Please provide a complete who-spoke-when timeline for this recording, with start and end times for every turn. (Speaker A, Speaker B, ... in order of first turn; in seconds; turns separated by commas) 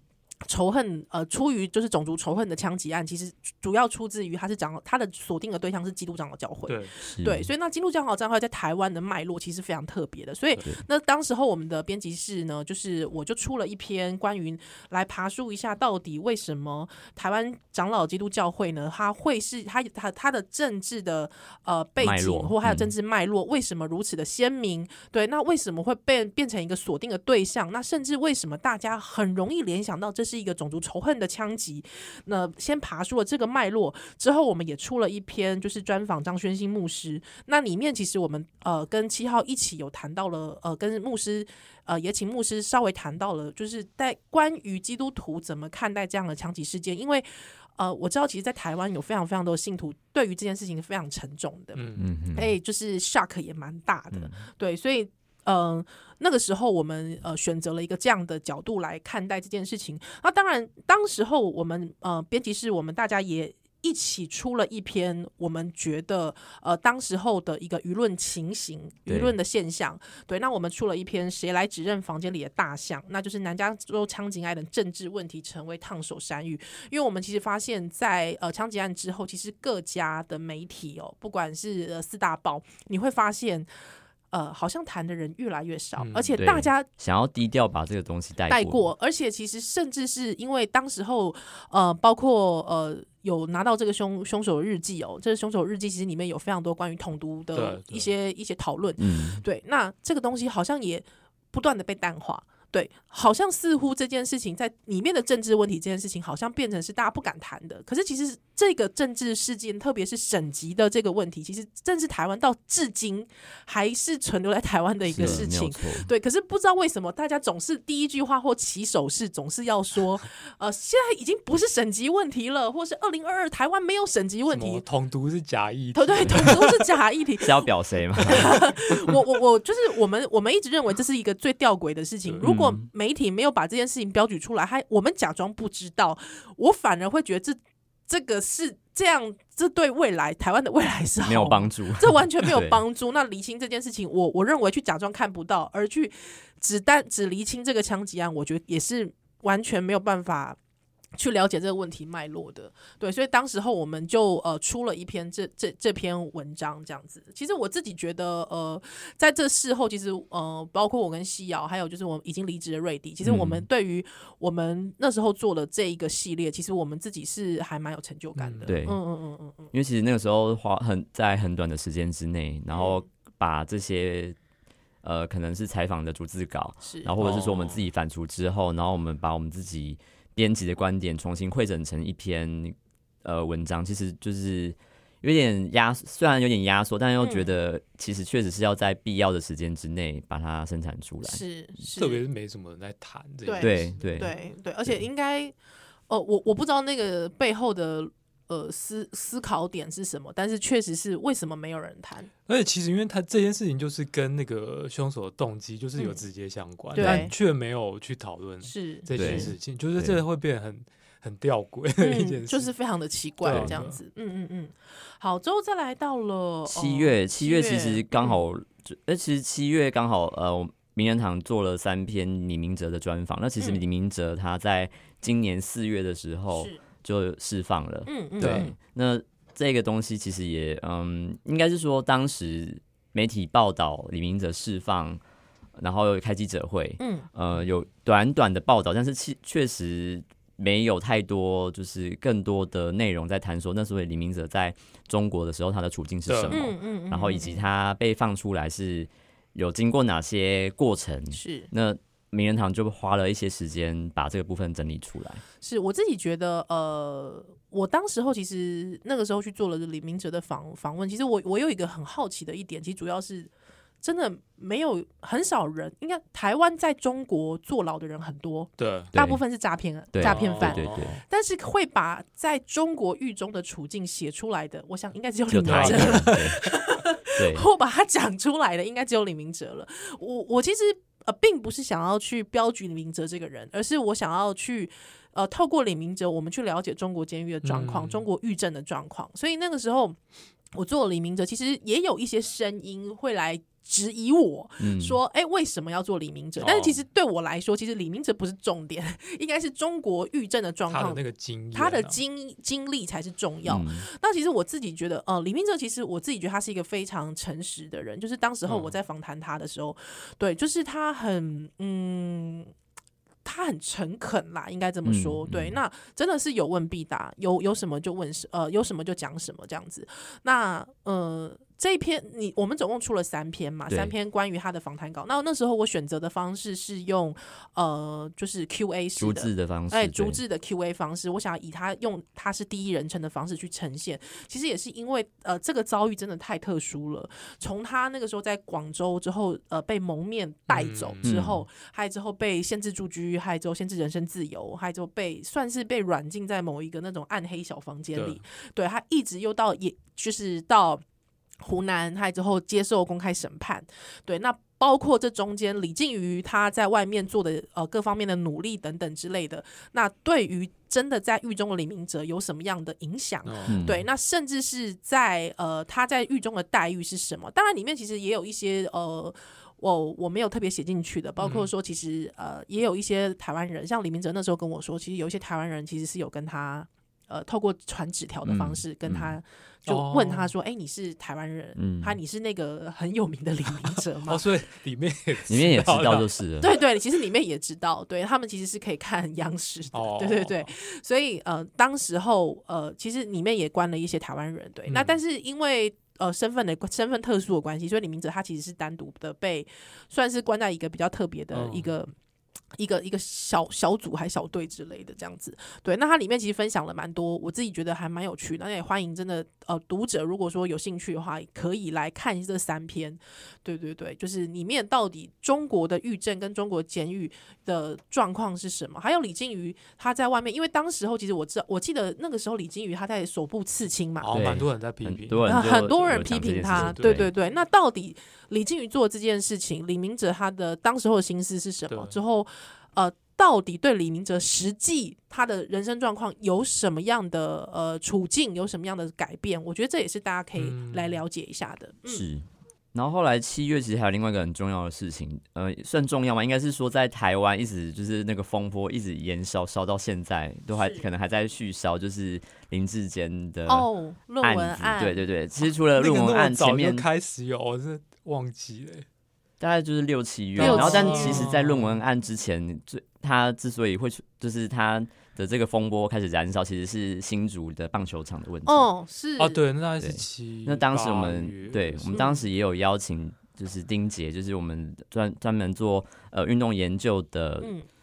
Speaker A: 0.5-83.7, Speaker B: 6.7-6.9, Speaker C: 7.0-7.5, Speaker C: 22.0-22.9, Speaker B: 51.7-52.1, Speaker C: 52.0-52.5, Speaker C: 54.1-54.4, Speaker C: 69.1-69.3, Speaker A: 84.3-86.9, Speaker B: 86.0-86.4, Speaker C: 86.4-88.8, Speaker A: 88.5-124.8, Speaker B: 97.5-98.1, Speaker C: 99.0-99.4, Speaker C: 115.1-116.1, Speaker B: 115.2-115.4, Speaker B: 124.5-126.8, Speaker A: 125.9-150.6, Speaker C: 127.4-128.6, Speaker C: 132.4-132.8, Speaker C: 141.2-142.8, Speaker A: 151.2-169.7, Speaker C: 163.2-163.7, Speaker B: 168.3-168.7, Speaker C: 168.7-169.0, Speaker C: 169.7-174.4, Speaker A: 172.7-173.0, Speaker C: 175.0-191.4, Speaker A: 176.8-177.1, Speaker B: 177.2-177.8, Speaker A: 187.2-187.5, Speaker A: 191.2-192.2, Speaker B: 191.9-194.3, Speaker A: 193.4-195.5, Speaker C: 193.6-194.3, Speaker A: 196.1-202.3, Speaker B: 202.5-212.7, Speaker A: 206.0-206.2, Speaker A: 206.9-207.3, Speaker C: 206.9-207.3, Speaker A: 208.6-209.5, Speaker C: 209.2-210.2, Speaker A: 212.0-218.4, Speaker B: 213.4-214.0, Speaker C: 213.5-213.8, Speaker C: 216.7-235.2, Speaker A: 226.5-226.8, Speaker A: 228.1-228.7, Speaker B: 228.4-228.7, Speaker C: 235.8-255.4, Speaker A: 237.0-237.3, Speaker B: 246.3-246.6, Speaker A: 246.5-247.7, Speaker A: 251.3-251.7, Speaker A: 255.6-263.5, Speaker A: 264.0-290.2, Speaker B: 268.8-269.1, Speaker C: 269.1-269.4, Speaker C: 270.1-271.2, Speaker B: 270.2-271.2, Speaker C: 275.5-276.6, Speaker B: 275.6-276.6, Speaker C: 277.4-277.7, Speaker B: 287.6-288.2, Speaker A: 290.7-301.2, Speaker C: 294.8-295.2, Speaker B: 296.6-297.0, Speaker B: 300.9-302.2, Speaker A: 301.7-312.7, Speaker C: 303.6-304.0, Speaker B: 308.6-308.9, Speaker A: 313.4-351.0, Speaker C: 315.0-315.8, Speaker C: 329.2-330.4, Speaker B: 340.7-341.5, Speaker C: 341.2-341.6, Speaker B: 348.1-348.4, Speaker A: 351.6-384.4, Speaker B: 363.4-363.8, Speaker C: 363.7-364.0, Speaker B: 371.4-371.7, Speaker C: 378.4-379.3, Speaker B: 379.9-380.5, Speaker C: 381.8-382.2, Speaker B: 384.2-386.4, Speaker C: 385.5-386.7, Speaker A: 386.6-402.1, Speaker B: 389.9-390.7, Speaker B: 394.9-395.2, Speaker B: 401.5-401.9, Speaker A: 402.8-424.4, Speaker B: 424.2-427.3, Speaker C: 424.3-427.3, Speaker A: 425.4-442.2, Speaker B: 431.9-432.2, Speaker B: 440.6-441.2, Speaker C: 442.1-453.9, Speaker A: 450.8-451.0, Speaker A: 453.7-455.2, Speaker C: 454.4-457.1, Speaker B: 455.9-459.0, Speaker C: 459.6-468.9, Speaker B: 460.6-462.0, Speaker A: 460.6-461.5, Speaker A: 468.6-469.6, Speaker B: 469.4-472.2, Speaker C: 470.0-477.7, Speaker A: 472.1-472.4, Speaker A: 477.6-477.9